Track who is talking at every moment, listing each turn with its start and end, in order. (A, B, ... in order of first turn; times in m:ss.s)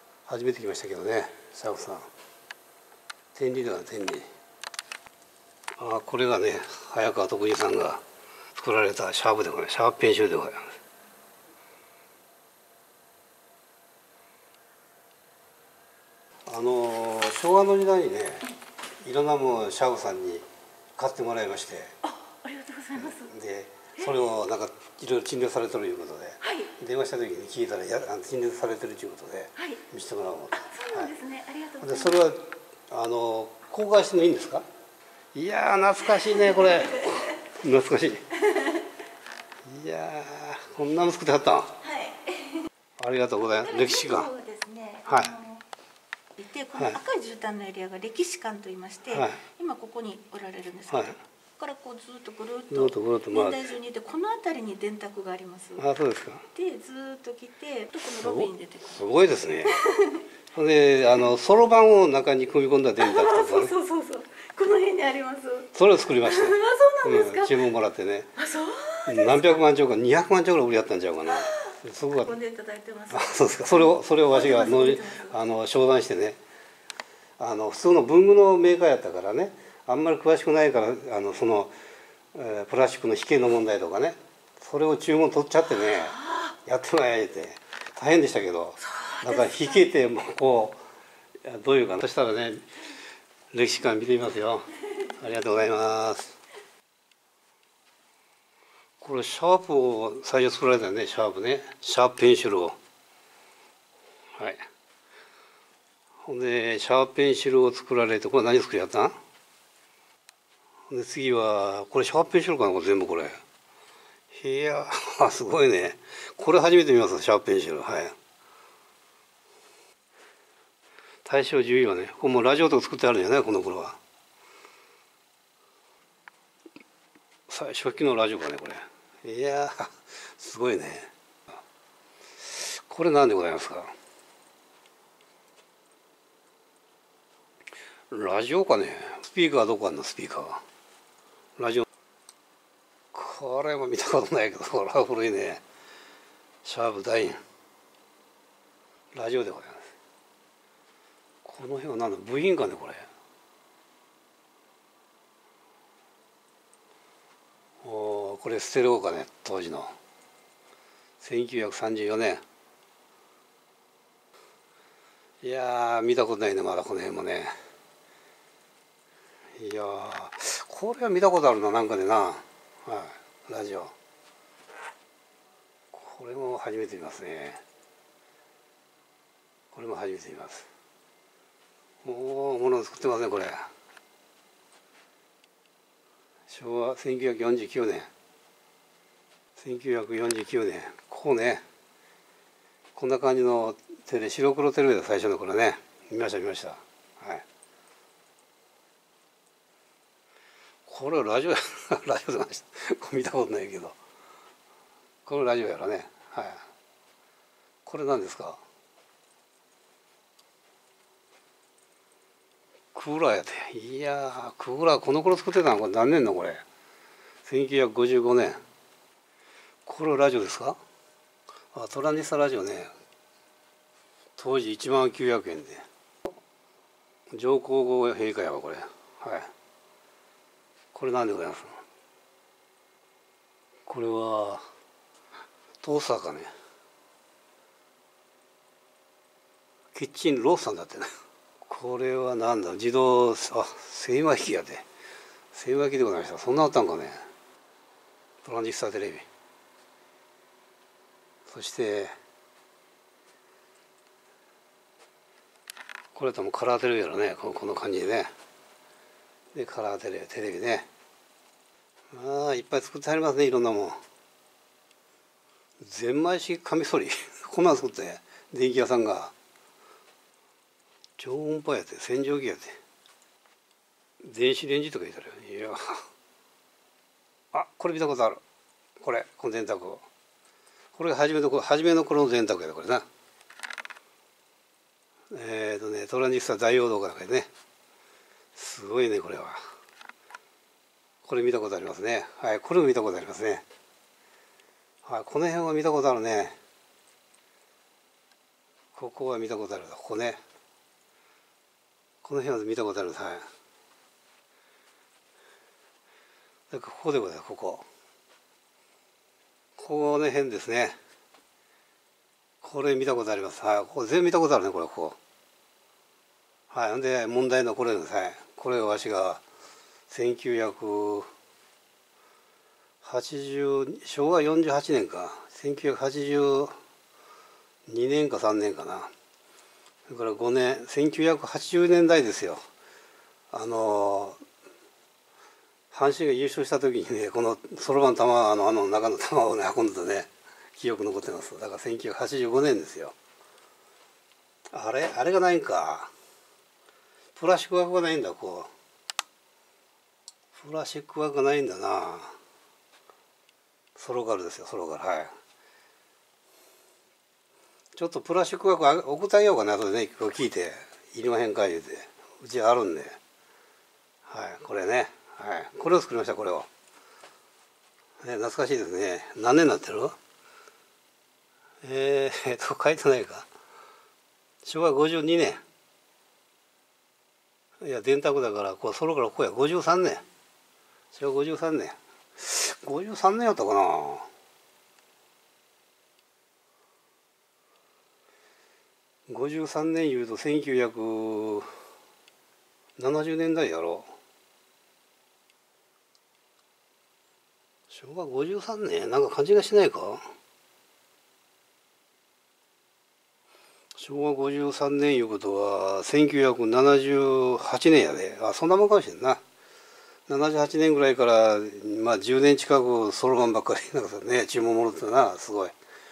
0:00.3-0:02.1 A
0:03.3-0:04.3 A
0:05.8-0:08.0 A
0:08.5-0:10.8 A
0:16.4-0:18.5 A
0:19.0-0:20.4 A
0:21.0-0:22.0 A
0:22.0-0:23.3 B
0:22.9-0:31.1 A
0:26.4-0:26.7 B
0:29.6-0:29.8 B
0:30.5-0:32.2 B
0:31.8-0:34.6 A
0:35.3-0:38.3 A
0:39.6-0:41.8 A
0:41.8-0:42.7 B
0:43.0-0:44.3 A
0:43.6-0:45.6 B
0:45.1-0:45.3 A
0:46.4-0:55.8 B
0:49.1-0:49.4 A
0:50.9-0:51.2 A
0:52.7-0:53.7 A
0:55.8-0:56.4 A
0:56.5-0:59.0 B
0:58.2-0:59.8 A
0:59.6-1:00.2 B
1:00.5-1:03.7 A
1:03.0-1:05.7 B
1:05.7-1:08.3 A
1:06.2-1:07.6 B
1:08.4-1:09.6 B
1:09.0-1:12.4 A
1:11.3-1:15.4 B
1:13.1-1:16.4 A
1:17.4-1:21.7 A
1:22.3-1:30.8 A
1:29.0-1:29.8 B
1:31.4-1:32.6 A
1:33.5-1:36.3 A
1:39.0-1:42.8 A
1:44.4-1:44.6 A
1:46.2-1:49.2 A
1:50.9-1:53.4 A
1:54.3-1:58.1 A
2:01.2-2:04.0 A
2:07.5-2:11.1 A
2:12.5-2:13.9 A
2:18.1-2:20.6 A
2:21.6-2:21.8 A
2:23.1-2:25.6 A
2:26.6-2:27.4 A
2:29.1-2:29.9 A
2:31.4-2:33.1 A
2:37.8-2:39.9 A
2:41.2-2:42.4 A
2:45.4-2:47.5 A
2:49.6-2:53.9 A
2:55.9-2:57.6 A
2:59.7-3:00.7 A
3:02.0-3:03.7 A
3:06.5-3:08.1 A
3:09.6-3:11.6 A
3:13.0-3:17.4 A
3:20.8-3:24.0 A
3:25.2-3:26.6 A
3:27.8-3:28.6 A
3:32.9-3:36.6 A
3:37.4-3:38.6 A
3:39.8-3:40.8 A
3:41.7-3:42.9 A
3:44.4-3:45.8 A
3:47.3-3:49.5 A
3:50.9-3:51.8 A
3:53.8-3:54.6 A
3:55.8-3:56.5 A
3:59.9-4:01.1 A
4:01.6-4:04.8 A
4:05.5-4:07.2 A
4:08.4-4:09.2 A
4:11.5-4:12.1 A
4:16.1-4:18.3 A
4:19.5-4:20.9 A
4:22.1-4:24.0 A
4:25.8-4:29.3 A
4:31.2-4:32.8 A
4:34.2-4:36.0 A
4:37.5-4:38.4 A
4:39.0-4:40.0 A
4:40.9-4:43.0 A
4:45.3-4:47.5 A
4:48.5-4:49.6 A
4:51.2-4:53.6 A
4:55.0-4:56.6 A
4:58.9-5:00.4 A
5:02.2-5:03.5 A
5:06.7-5:07.8 A
5:09.8-5:11.0 A
5:12.6-5:15.2 A
5:16.7-5:19.4 A
5:20.1-5:21.3 A
5:23.0-5:26.7 A
5:27.9-5:29.1 A
5:30.1-5:32.6 A
5:33.5-5:34.4 A
5:35.9-5:43.1 A
5:44.7-5:46.1 A
5:47.3-5:48.7 A
5:50.5-5:52.4 A
5:54.0-5:55.3 A
5:57.9-6:03.2 A
6:04.3-6:06.7 A
6:08.2-6:10.2 A
6:11.8-6:13.5 A
6:14.6-6:15.6 A
6:17.8-6:20.2 A
6:21.1-6:24.3 A
6:29.3-6:31.7 A
6:33.0-6:34.1 A
6:37.9-6:40.2 A
6:44.0-6:49.4 A
6:50.3-6:55.8 A